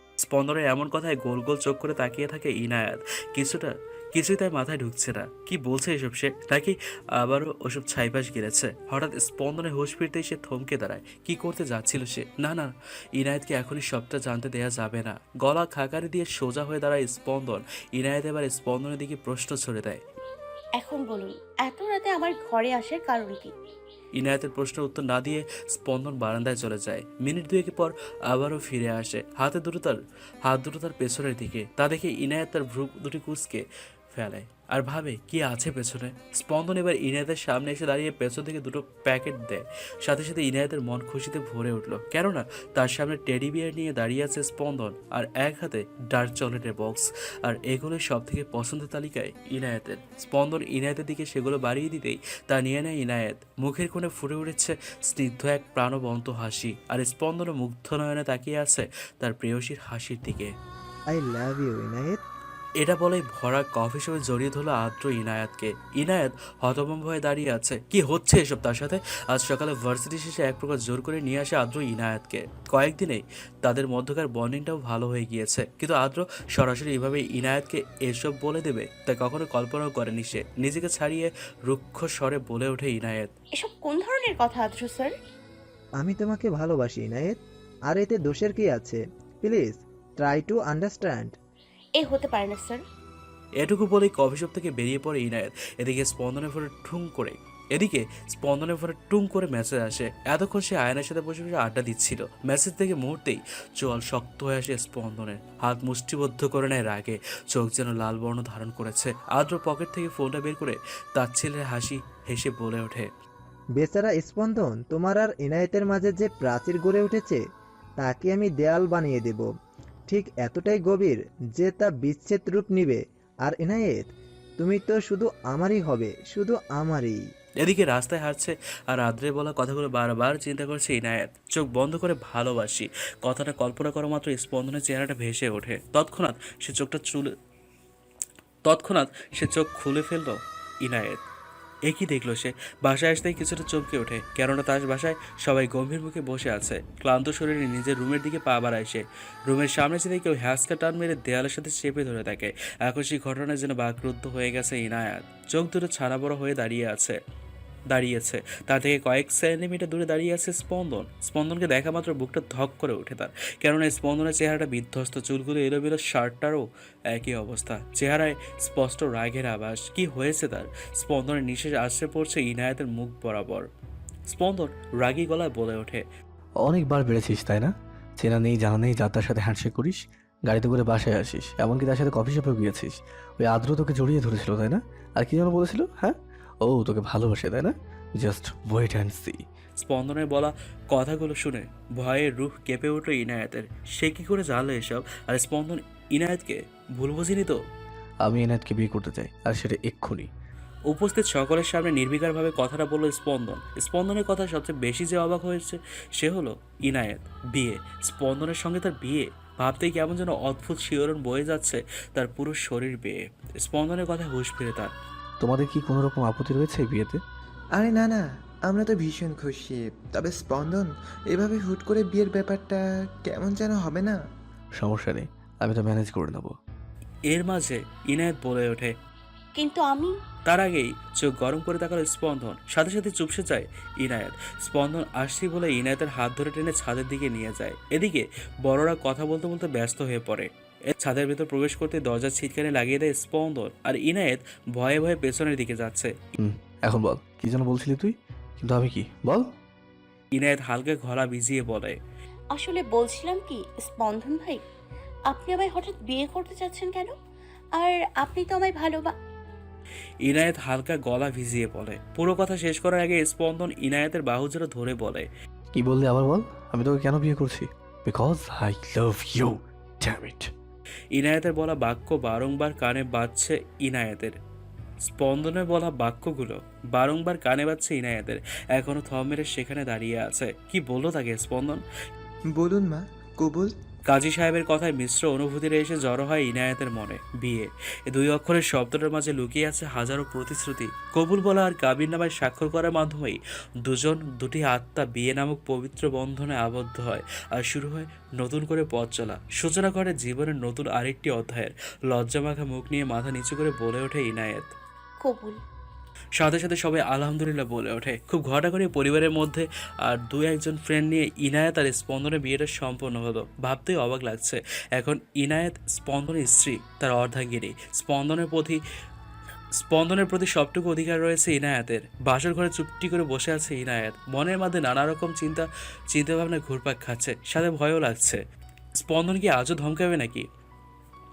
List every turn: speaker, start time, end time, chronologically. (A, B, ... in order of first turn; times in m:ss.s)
0:00.2-0:20.0 A
0:20.8-0:23.5 B
0:24.1-1:00.5 A
1:01.1-1:02.2 C
1:02.8-1:23.3 A
1:23.5-1:25.1 B
1:26.0-1:31.3 C
1:32.0-1:32.8 B
1:33.6-1:53.1 A
1:53.7-1:57.4 C
1:58.0-1:59.5 C
2:00.1-2:07.2 C
2:07.6-2:17.3 A
2:18.6-2:21.2 A
2:21.8-2:37.2 A
2:37.9-2:53.7 A
2:54.3-2:56.0 A
2:56.6-3:09.4 D
3:09.8-3:17.6 A
3:18.2-3:20.3 D
3:20.9-3:34.9 A
3:35.4-3:37.2 D
3:37.8-3:44.2 E
3:44.8-3:46.5 D
3:47.3-3:48.9 A
3:49.6-3:50.1 B
3:50.4-4:06.1 A
4:06.4-4:09.5 D
4:10.3-4:12.0 A
4:12.5-4:14.6 B
4:15.3-4:17.1 B
4:17.7-4:19.1 B
4:20.2-4:25.3 A
4:25.7-4:30.5 D
4:31.1-4:34.3 A
4:35.0-4:41.8 A
4:42.5-4:43.7 E
4:44.1-5:04.7 A
5:05.2-5:05.6 B
5:06.4-5:18.8 A
5:19.8-5:28.4 A
5:29.0-5:30.5 A